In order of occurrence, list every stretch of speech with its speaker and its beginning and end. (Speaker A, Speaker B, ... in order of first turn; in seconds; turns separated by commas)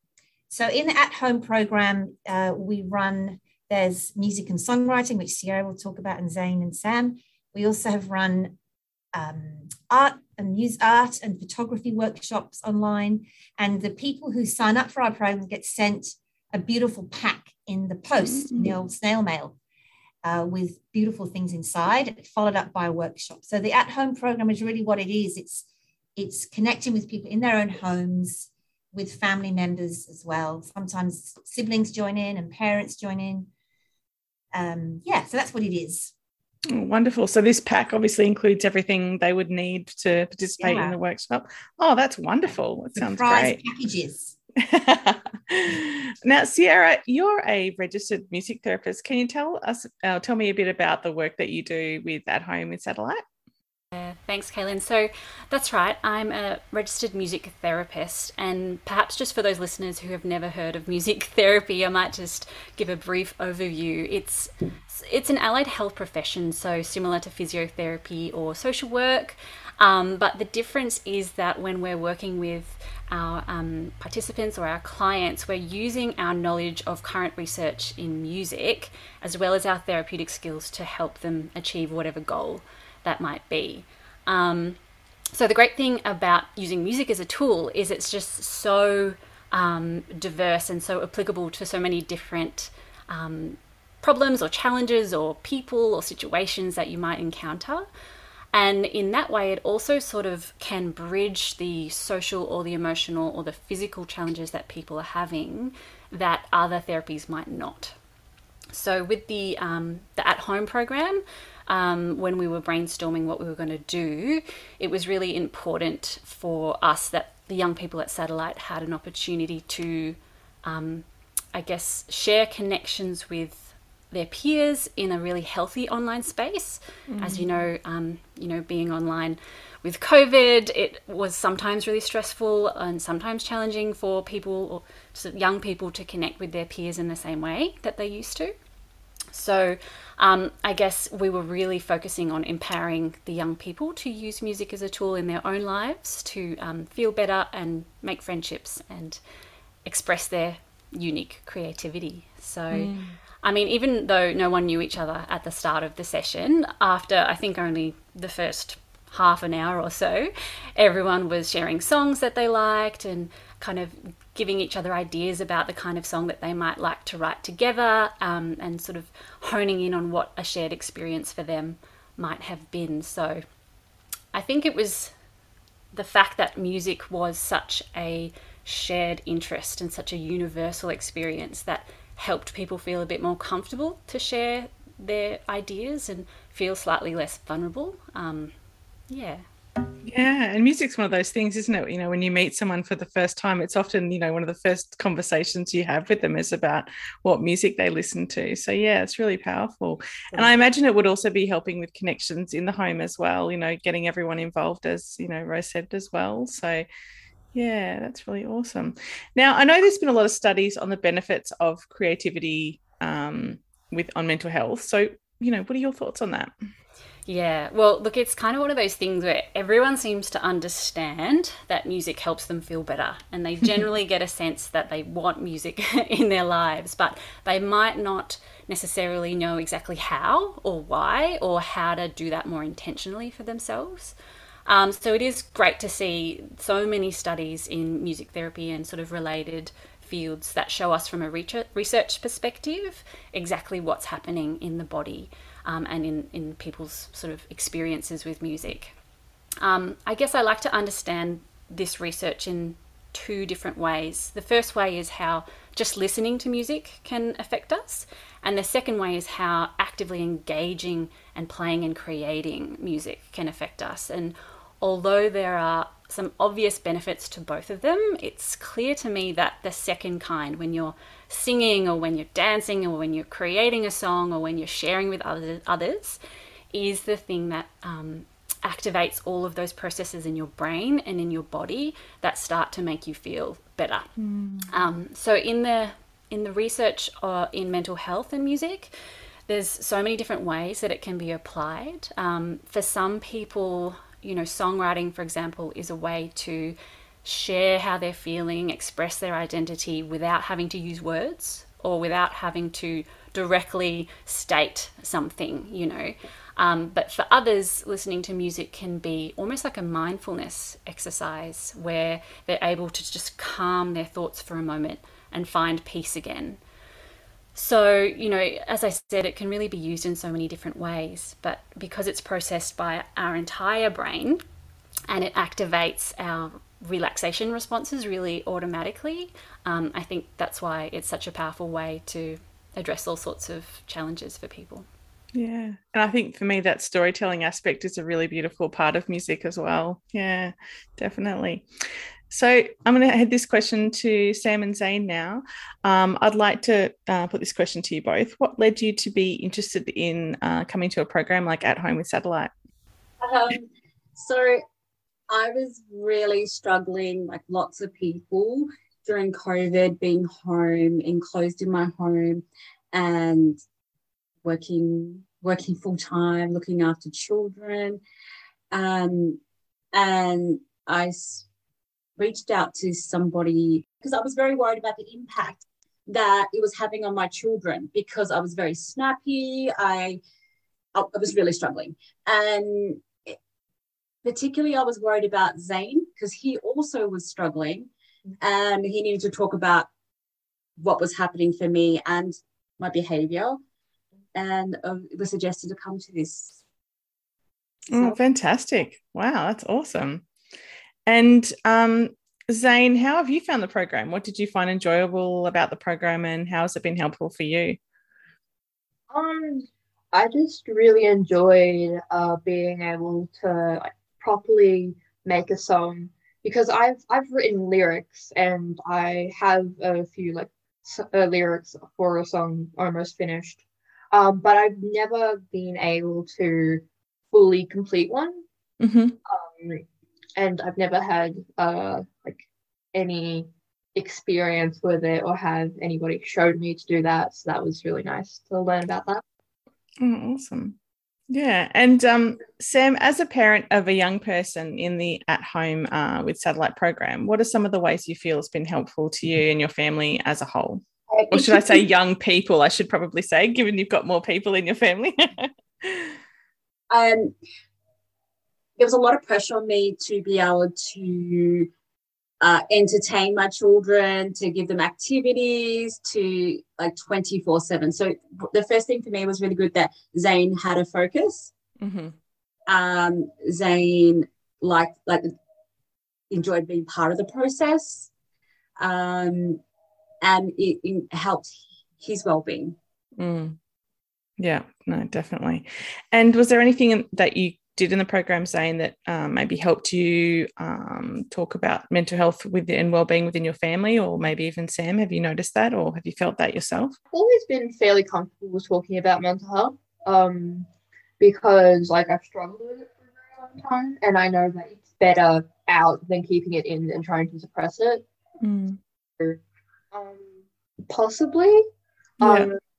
Speaker A: 0.5-8.6, Speaker A: 9.1-19.6, Speaker B: 18.2-18.7, Speaker A: 20.2-25.6, Speaker A: 26.2-33.5, Speaker A: 34.5-36.1, Speaker B: 36.7-43.6, Speaker A: 40.6-41.0, Speaker A: 43.0-44.4, Speaker B: 44.6-53.2, Speaker C: 53.9-84.8, Speaker C: 85.3-97.9, Speaker C: 98.5-108.0, Speaker C: 108.7-138.5, Speaker B: 127.1-127.5, Speaker C: 139.3-149.2, Speaker C: 149.8-152.9, Speaker B: 152.7-153.2, Speaker C: 153.4-173.4, Speaker C: 174.3-175.1, Speaker C: 175.9-188.5, Speaker C: 189.1-189.4, Speaker B: 190.1-206.9, Speaker B: 207.5-216.5, Speaker C: 217.3-248.9, Speaker C: 249.6-276.2, Speaker C: 276.7-284.1, Speaker B: 284.2-284.7, Speaker C: 284.7-288.9, Speaker C: 289.5-316.6, Speaker C: 317.6-324.4, Speaker C: 325.1-334.9, Speaker B: 335.3-341.7, Speaker B: 342.3-352.5, Speaker D: 353.2-354.6, Speaker D: 355.3-363.6, Speaker D: 364.4-368.0, Speaker D: 368.7-369.4, Speaker D: 369.9-371.5, Speaker D: 372.2-380.2, Speaker D: 380.9-383.4, Speaker D: 384.2-387.9, Speaker D: 388.4-389.9, Speaker D: 390.8-393.6, Speaker D: 394.3-396.6, Speaker B: 397.9-400.2, Speaker B: 401.1-407.8, Speaker E: 409.1-428.4, Speaker B: 428.8-429.2, Speaker E: 429.3-429.8, Speaker E: 430.4-439.2, Speaker B: 440.0-440.8, Speaker B: 441.3-456.1, Speaker D: 451.1-451.9, Speaker D: 456.9-457.3, Speaker D: 458.8-461.7, Speaker D: 462.4-471.5, Speaker B: 471.8-472.1, Speaker D: 472.7-475.3, Speaker D: 476.3-478.1, Speaker D: 478.8-479.6, Speaker D: 480.2-482.8, Speaker B: 483.2-483.6, Speaker B: 484.4-497.0, Speaker E: 497.1-500.7, Speaker E: 501.2-508.0, Speaker B: 508.4-508.8, Speaker E: 509.9-511.6, Speaker B: 512.2-512.5, Speaker E: 512.2-512.6